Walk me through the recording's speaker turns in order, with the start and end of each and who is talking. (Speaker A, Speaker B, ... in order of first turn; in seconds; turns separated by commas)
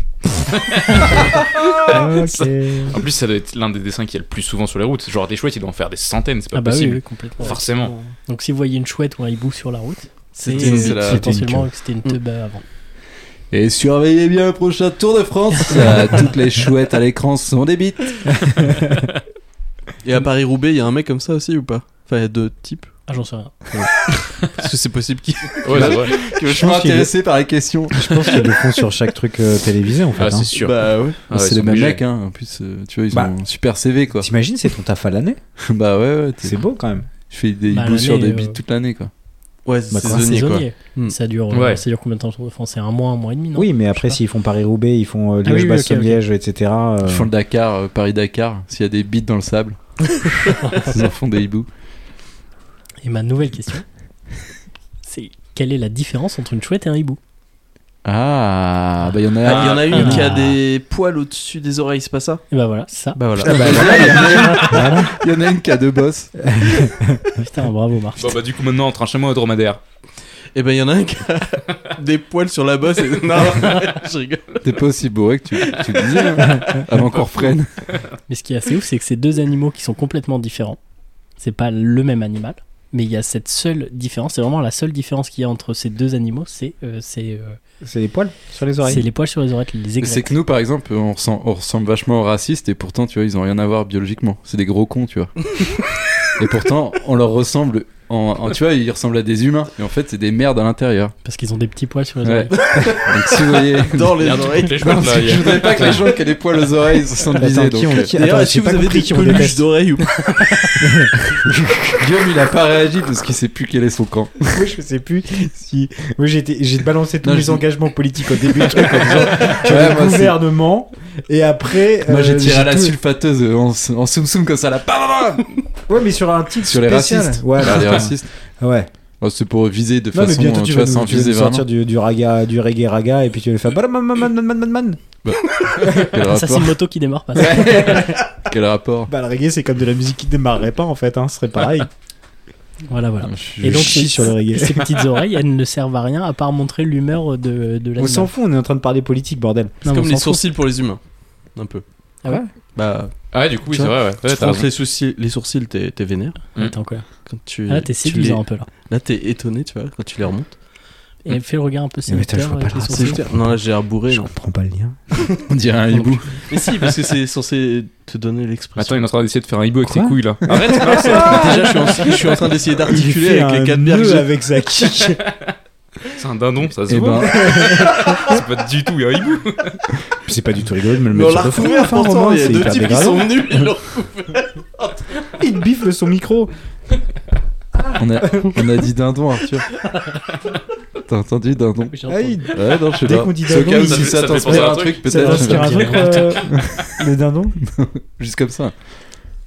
Speaker A: 0.3-7.9, Speaker B: 1.9-3.0, Speaker C: 6.5-7.6, Speaker D: 7.5-8.1, Speaker C: 8.3-12.6, Speaker D: 10.4-11.2, Speaker E: 10.5-11.3, Speaker B: 11.0-11.7, Speaker E: 13.5-18.6, Speaker B: 18.6-18.9, Speaker D: 20.0-22.9, Speaker C: 23.1-23.6, Speaker D: 24.4-26.6, Speaker A: 25.6-26.1, Speaker E: 25.8-28.2, Speaker B: 26.4-27.1, Speaker B: 27.9-30.5, Speaker A: 30.1-32.0, Speaker D: 30.6-31.3, Speaker E: 31.3-34.3, Speaker B: 34.1-35.4, Speaker E: 35.6-36.6, Speaker B: 36.4-37.1, Speaker E: 37.1-39.1, Speaker C: 37.7-38.6, Speaker D: 39.6-41.1, Speaker B: 39.9-40.4, Speaker C: 40.0-44.2, Speaker A: 41.5-41.8, Speaker B: 43.5-47.3, Speaker C: 45.4-46.2, Speaker E: 47.0-49.8, Speaker C: 50.6-51.0, Speaker E: 50.9-51.7, Speaker C: 53.0-53.8, Speaker C: 55.0-57.2, Speaker E: 58.0-60.2, Speaker D: 59.4-62.4, Speaker A: 59.4-60.0, Speaker C: 59.9-60.4, Speaker C: 62.5-63.2, Speaker D: 63.1-64.7, Speaker E: 63.4-66.3, Speaker B: 63.4-63.9, Speaker C: 64.1-64.8, Speaker B: 64.7-65.2, Speaker B: 66.4-67.2, Speaker C: 67.4-68.3, Speaker A: 68.2-69.8, Speaker D: 70.5-74.7, Speaker E: 74.6-77.9, Speaker D: 75.5-76.8, Speaker C: 78.3-80.8, Speaker C: 81.4-87.6, Speaker B: 87.8-89.0, Speaker C: 88.8-90.3, Speaker E: 90.0-95.8, Speaker E: 96.4-101.1, Speaker C: 101.2-102.5, Speaker E: 102.2-108.1, Speaker D: 102.5-106.0, Speaker A: 104.2-106.1, Speaker B: 107.3-109.7, Speaker D: 108.1-110.7, Speaker C: 110.4-110.7, Speaker B: 110.8-112.0, Speaker E: 112.0-114.6, Speaker B: 114.5-123.0, Speaker E: 117.2-117.6, Speaker E: 118.6-120.3, Speaker E: 122.1-125.5, Speaker B: 125.9-128.9, Speaker E: 126.6-128.3, Speaker E: 129.2-131.6, Speaker B: 130.1-135.1, Speaker E: 135.2-136.8, Speaker C: 135.9-138.1, Speaker B: 137.4-138.3, Speaker E: 137.4-139.1, Speaker B: 139.1-141.9, Speaker C: 142.9-148.3, Speaker E: 143.2-144.2, Speaker B: 143.6-144.9, Speaker B: 148.0-149.8, Speaker C: 149.8-150.5, Speaker D: 149.8-151.0, Speaker D: 151.5-151.8, Speaker D: 152.7-153.1, Speaker A: 153.3-154.7, Speaker D: 153.7-156.4, Speaker C: 156.5-157.1, Speaker D: 157.3-160.6, Speaker C: 157.7-158.7, Speaker C: 161.2-163.2, Speaker B: 162.1-165.0, Speaker D: 162.9-164.3, Speaker E: 165.5-166.9, Speaker D: 166.0-169.1, Speaker A: 168.8-171.9, Speaker B: 169.8-175.2, Speaker D: 170.8-174.3, Speaker A: 176.1-179.8, Speaker E: 176.9-177.4, Speaker B: 177.2-178.4, Speaker B: 180.2-183.5, Speaker D: 181.1-185.3, Speaker B: 185.4-186.5, Speaker E: 187.9-189.7, Speaker B: 188.0-188.5, Speaker E: 191.1-192.0, Speaker C: 191.9-192.5, Speaker B: 192.1-197.6, Speaker E: 192.5-197.0, Speaker A: 193.6-195.2, Speaker C: 195.1-196.4, Speaker E: 197.6-198.7